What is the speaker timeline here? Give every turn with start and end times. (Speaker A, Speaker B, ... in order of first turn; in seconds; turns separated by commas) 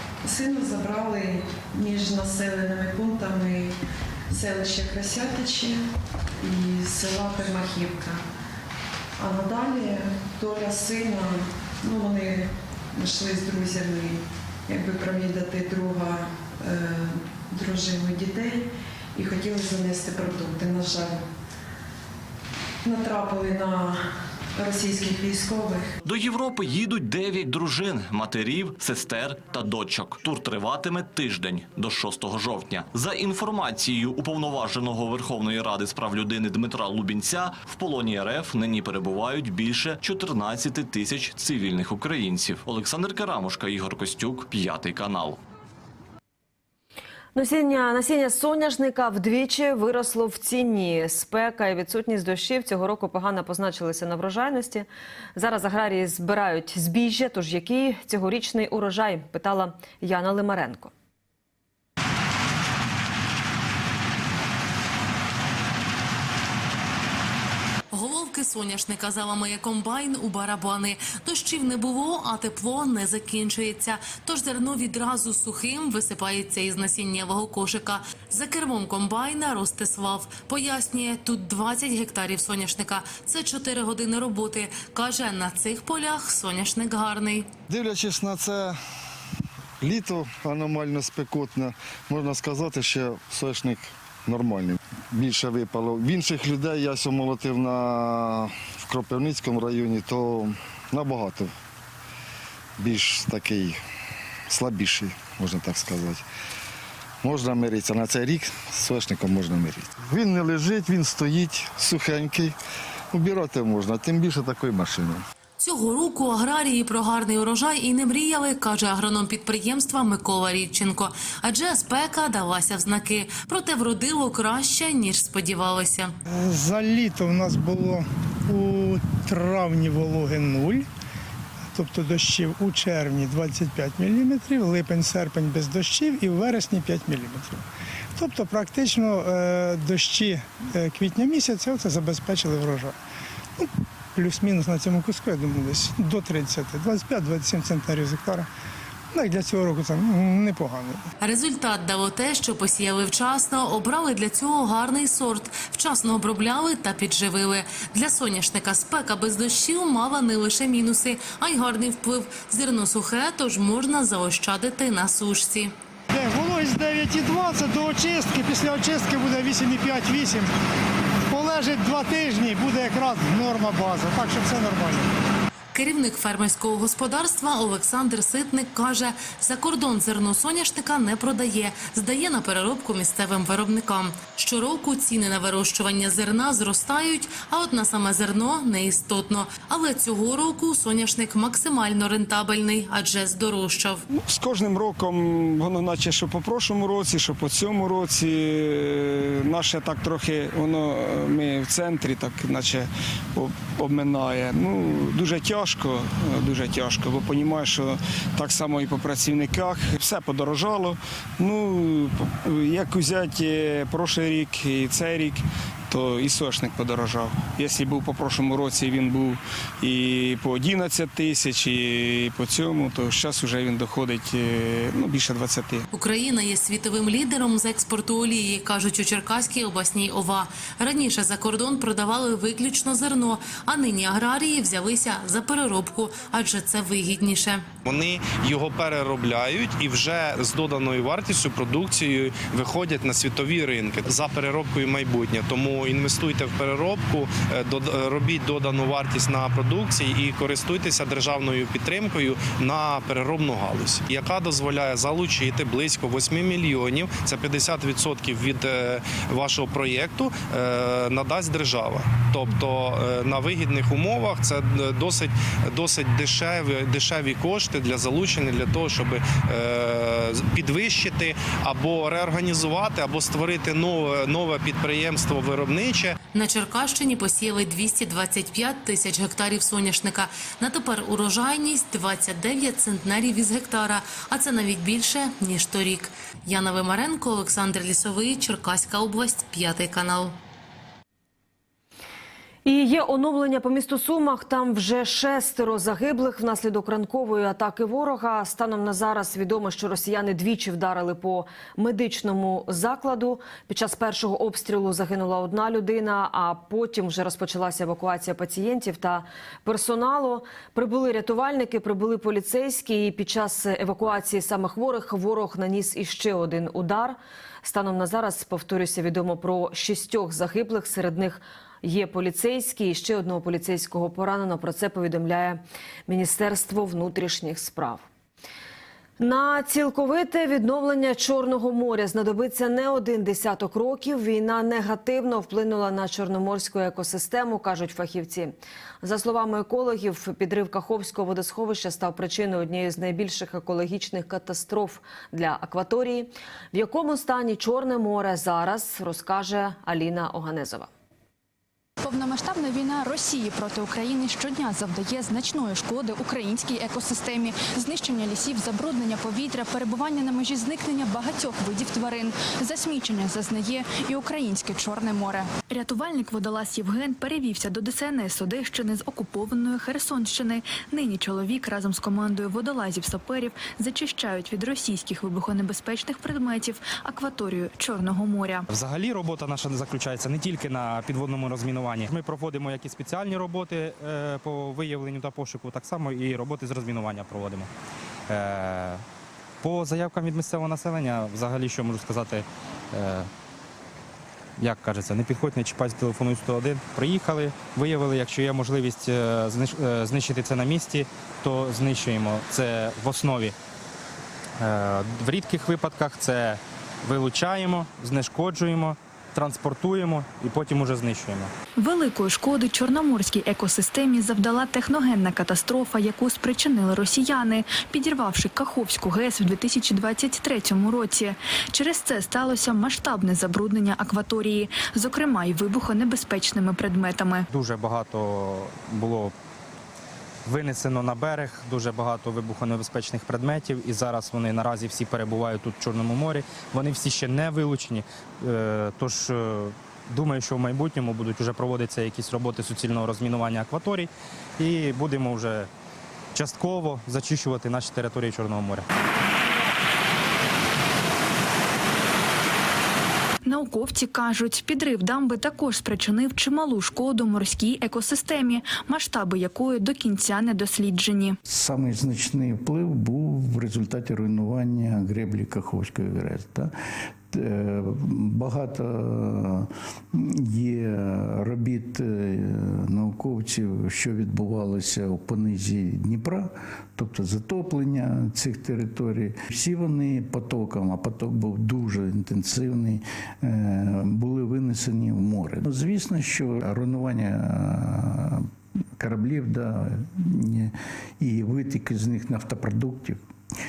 Speaker A: 0.2-3.7, Speaker A: 4.3-5.8, Speaker A: 6.4-8.2, Speaker A: 9.2-21.3, Speaker A: 22.8-24.0, Speaker A: 24.6-25.9, Speaker B: 26.0-45.4, Speaker C: 47.4-60.9, Speaker D: 67.9-87.5, Speaker E: 87.7-88.8, Speaker E: 89.8-101.5, Speaker E: 102.8-103.8, Speaker E: 104.5-106.2, Speaker E: 107.2-112.6, Speaker E: 113.1-115.2, Speaker D: 115.6-126.1, Speaker F: 126.3-130.9, Speaker F: 131.7-137.6, Speaker F: 138.2-143.0, Speaker F: 143.6-148.5, Speaker F: 149.1-151.1, Speaker D: 151.2-165.7, Speaker F: 166.1-170.5, Speaker F: 171.3-175.1, Speaker D: 175.7-194.0, Speaker G: 194.3-225.8, Speaker D: 225.9-237.7, Speaker H: 237.9-276.2, Speaker D: 276.3-290.4, Speaker C: 292.6-328.1, Speaker C: 329.2-350.9, Speaker I: 352.0-378.7, Speaker J: 378.7-387.7, Speaker J: 388.3-389.0, Speaker J: 389.6-393.3, Speaker J: 394.6-403.6, Speaker J: 404.6-411.5, Speaker I: 411.8-427.5, Speaker J: 427.5-429.3, Speaker J: 430.5-445.7, Speaker J: 446.3-448.9, Speaker I: 453.5-461.4, Speaker K: 461.5-466.7, Speaker K: 467.3-488.5, Speaker K: 489.0-493.2